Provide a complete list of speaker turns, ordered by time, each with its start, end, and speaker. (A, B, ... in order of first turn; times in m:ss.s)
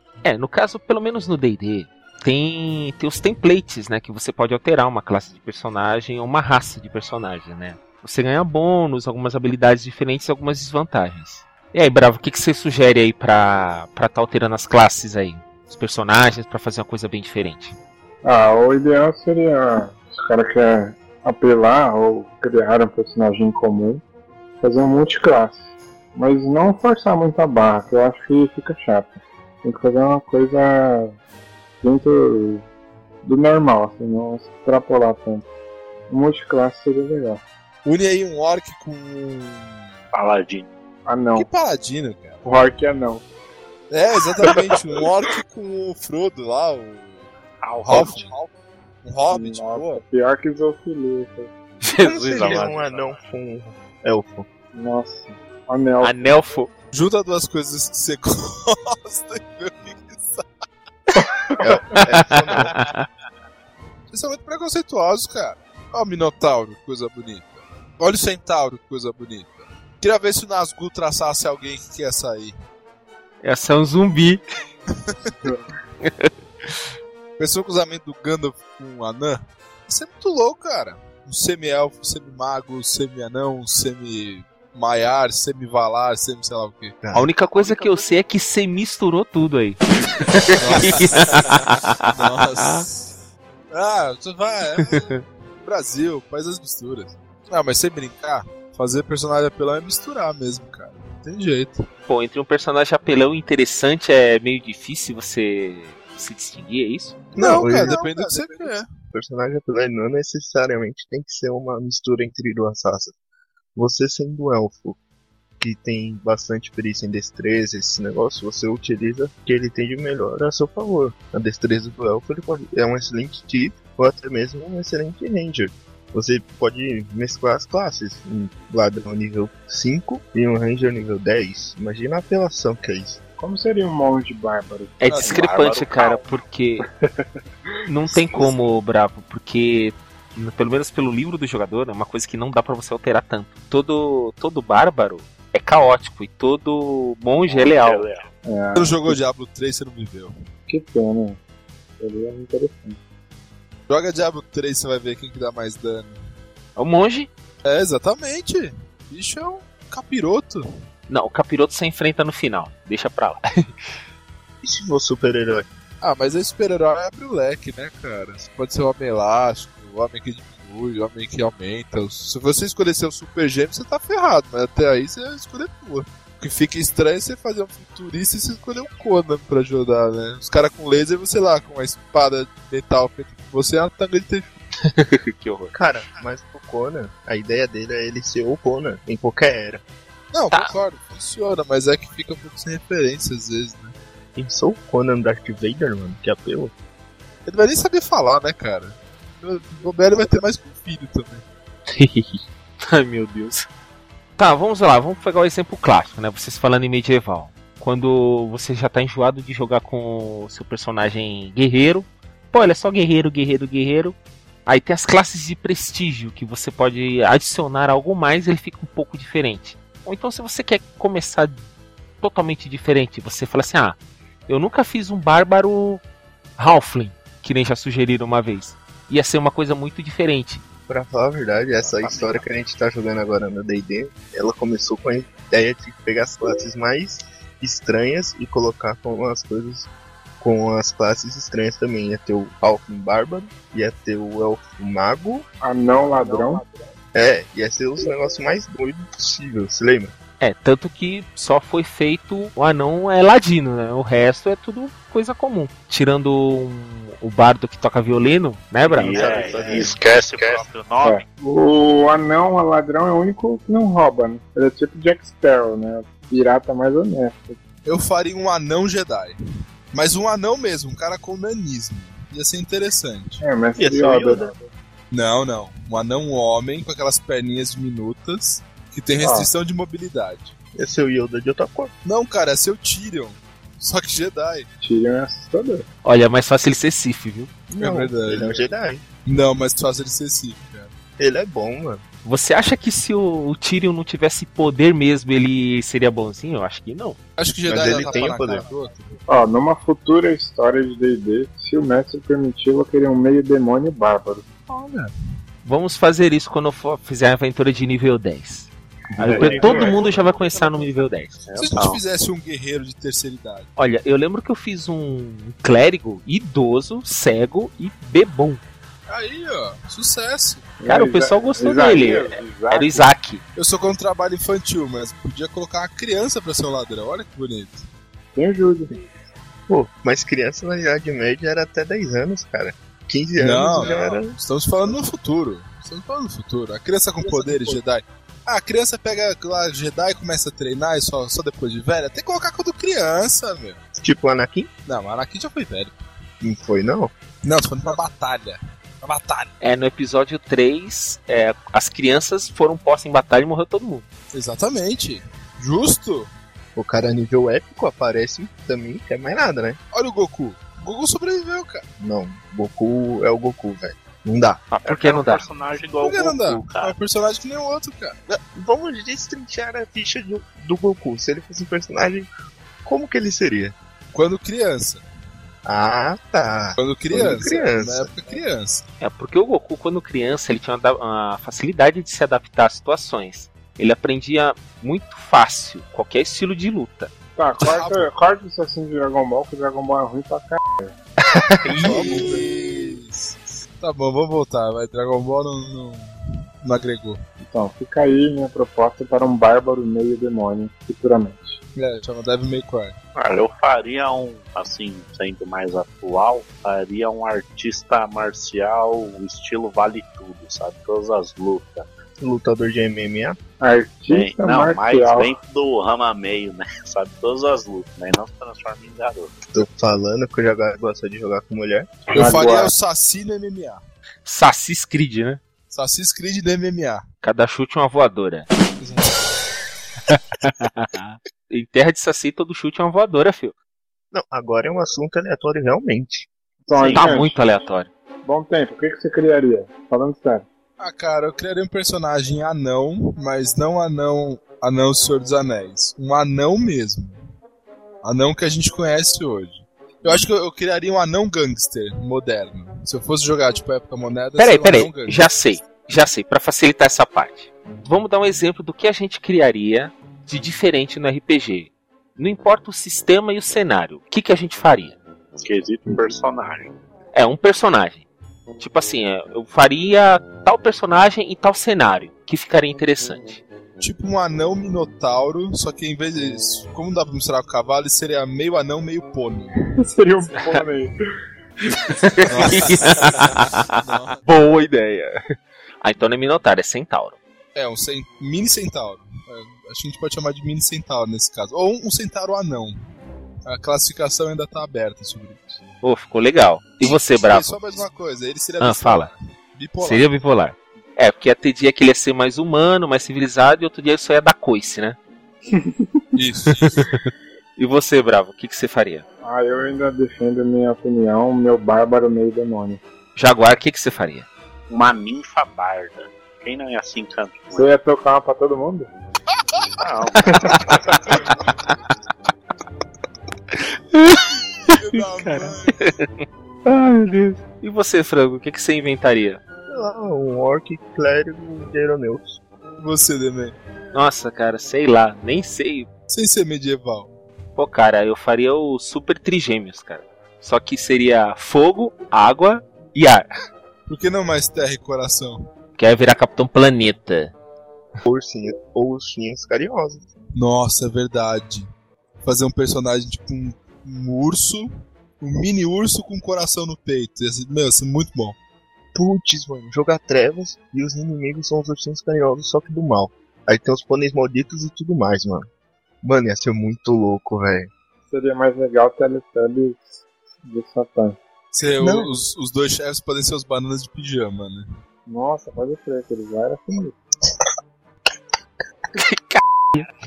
0:00.2-0:17.7 A
0:18.2-0:24.0 B
0:24.6-0:31.2 B
0:31.8-0:32.6 B
0:33.2-0:35.4 B
0:36.1-0:37.4 B
0:37.8-0:39.9 C
0:40.1-0:40.7 D
0:41.0-0:41.5 B
0:41.3-0:42.4 C
0:42.4-0:43.2 B
0:43.9-0:47.3 C
0:47.6-0:48.3 D
0:47.8-0:48.5 C
0:49.0-0:50.0 C
0:49.3-0:51.5 B
0:51.8-0:52.7 A
0:52.0-0:54.5 E
0:52.3-0:53.2 D
0:54.7-0:56.4 B
0:56.0-0:56.7 A
0:56.9-1:00.5 C
1:01.6-1:02.7 E
1:02.0-1:03.0 A
1:04.1-1:12.5 C
1:13.4-1:14.4 A
1:15.0-1:15.4 C
1:16.0-1:16.8 A
1:17.4-1:27.0 C
1:27.0-1:27.3 E
1:27.1-1:32.9 A
1:27.6-1:28.2 D
1:30.5-1:33.1 C
1:33.7-1:41.8 C
1:34.8-1:35.2 A
1:42.1-1:47.2 A
1:47.3-1:48.9 C
1:47.4-1:53.1 E
1:53.7-1:55.0 E
1:55.6-2:13.2 E
2:13.4-2:15.0 B
2:15.0-2:16.8 A
2:15.0-2:15.4 C
2:15.2-2:16.4 D
2:17.9-2:28.1 A
2:18.3-2:18.7 E
2:27.4-2:28.3 D
2:28.4-2:29.2 B
2:28.7-2:30.3 C
2:30.7-2:31.4 B
2:32.0-2:33.0 B
2:33.9-2:36.2 C
2:36.8-2:37.3 A
2:37.6-2:40.6 C
2:41.1-2:43.4 A
2:44.6-2:45.7 E
2:46.0-3:04.5 C
3:04.9-3:05.7 A
3:05.7-3:09.8 E
3:10.3-3:13.9 C
3:14.4-3:16.7 E
3:17.4-3:21.4 C
3:21.9-3:23.7 A
3:24.4-3:41.6 A
3:42.2-3:46.0 A
3:46.6-3:50.6 A
3:50.9-4:05.4 E
3:51.8-3:52.4 D
4:05.6-4:06.7 B
4:07.1-4:10.1 E
4:10.4-4:19.6 A
4:18.9-4:21.2 D
4:19.0-4:20.6 E
4:21.0-4:27.6 B
4:27.8-4:29.4 C
4:29.9-4:33.4 C
4:33.4-4:34.6 B
4:33.8-4:34.5 E
4:35.1-4:40.5 C
4:39.2-4:39.5 B
4:40.7-4:41.9 E
4:42.0-4:44.7 C
4:44.8-4:45.8 B
4:46.0-4:47.5 A
4:47.7-4:49.0 E
4:47.8-4:48.6 C
4:49.2-4:50.9 C
4:51.2-4:52.0 E
4:52.2-4:57.2 A
4:57.4-4:59.2 C
4:57.6-4:58.6 E
4:59.3-5:04.5 B
5:04.7-5:05.1 C
5:05.6-5:11.4 A
5:09.2-5:10.3 B
5:09.4-5:10.1 D
5:11.4-5:12.0 D
5:11.5-5:13.7 C
5:13.8-5:18.6 A
5:19.1-5:20.7 C
5:20.8-5:23.1 B
5:20.8-5:23.4 A
5:23.6-5:27.8 C
5:28.3-5:29.0 B
5:29.7-5:35.0 E
5:33.4-5:43.8 C
5:37.2-5:37.8 E
5:43.9-5:44.7 E
5:44.8-5:46.0 C
5:46.4-5:47.1 E
5:47.4-5:49.5 C
5:49.6-5:54.1 A
5:54.3-5:56.3 C
5:56.7-5:59.8 E
5:59.9-6:01.8 C
6:02.0-6:04.6 E
6:04.7-6:05.4 A
6:04.8-6:06.9 D
6:06.0-6:08.2 C
6:08.3-6:12.3 E
6:12.8-6:13.8 E
6:14.1-6:15.0 C
6:15.6-6:18.4 E
6:16.8-6:18.8 C
6:19.0-6:27.1 A
6:27.4-6:30.9 B
6:27.6-6:28.1 C
6:31.2-6:31.9 A
6:31.8-6:37.2 C
6:31.8-6:32.7 B
6:37.4-6:41.6 B
6:41.8-6:42.9 C
6:43.2-6:51.8 D
6:52.2-6:53.4 E
6:53.6-6:55.3 B
6:54.1-6:59.3 D
6:59.5-7:02.0 E
7:02.1-7:02.7 B
7:02.1-7:03.8 C
7:04.2-7:05.4 A
7:05.7-7:07.0 C
7:07.2-7:08.5 A
7:08.8-7:09.2 C
7:10.1-7:13.5 A
7:14.1-7:16.3 E
7:16.6-7:17.4 B
7:16.7-7:17.2 D
7:16.9-7:17.9 A
7:18.2-7:20.4 B
7:20.8-7:27.2 C
7:28.0-7:35.3 C
7:34.4-7:45.0 A
7:45.4-7:46.7 D
7:47.1-7:48.0 A
7:48.6-7:53.4 A
7:53.8-7:59.7 C
7:59.8-8:00.9 B
8:02.0-8:05.2 A
8:02.2-8:04.2 C
8:05.8-8:07.2 A
8:07.5-8:12.8 C
8:13.4-8:15.6 C
8:15.8-8:17.8 A
8:16.8-8:20.1 C
8:18.6-8:19.1 A
8:19.8-8:25.0 A
8:25.5-8:26.1 B
8:26.1-8:26.9 C
8:26.5-8:27.0 A
8:27.6-8:29.0 A
8:29.2-8:32.8 B
8:33.2-8:34.3 A
8:34.7-8:37.7 D
8:37.5-8:38.9 B
8:39.8-8:41.2 D
8:40.3-8:40.6 B
8:41.5-8:41.7 A
8:43.9-8:49.4 A
8:44.6-8:45.9 C
8:49.7-8:52.4 E
8:52.8-8:53.6 C
8:53.9-8:55.9 A
8:56.1-8:57.1 C
8:57.6-9:03.2 A
9:03.9-9:05.5 C
9:05.8-9:07.3 A
9:08.0-9:10.1 E
9:10.3-9:11.7 C
9:12.2-9:18.4 C
9:18.9-9:25.5 E
9:26.0-9:27.7 E
9:28.1-9:31.2 B
9:31.5-9:34.6 C
9:31.8-9:32.1 E
9:35.0-9:36.9 B
9:39.0-9:39.9 A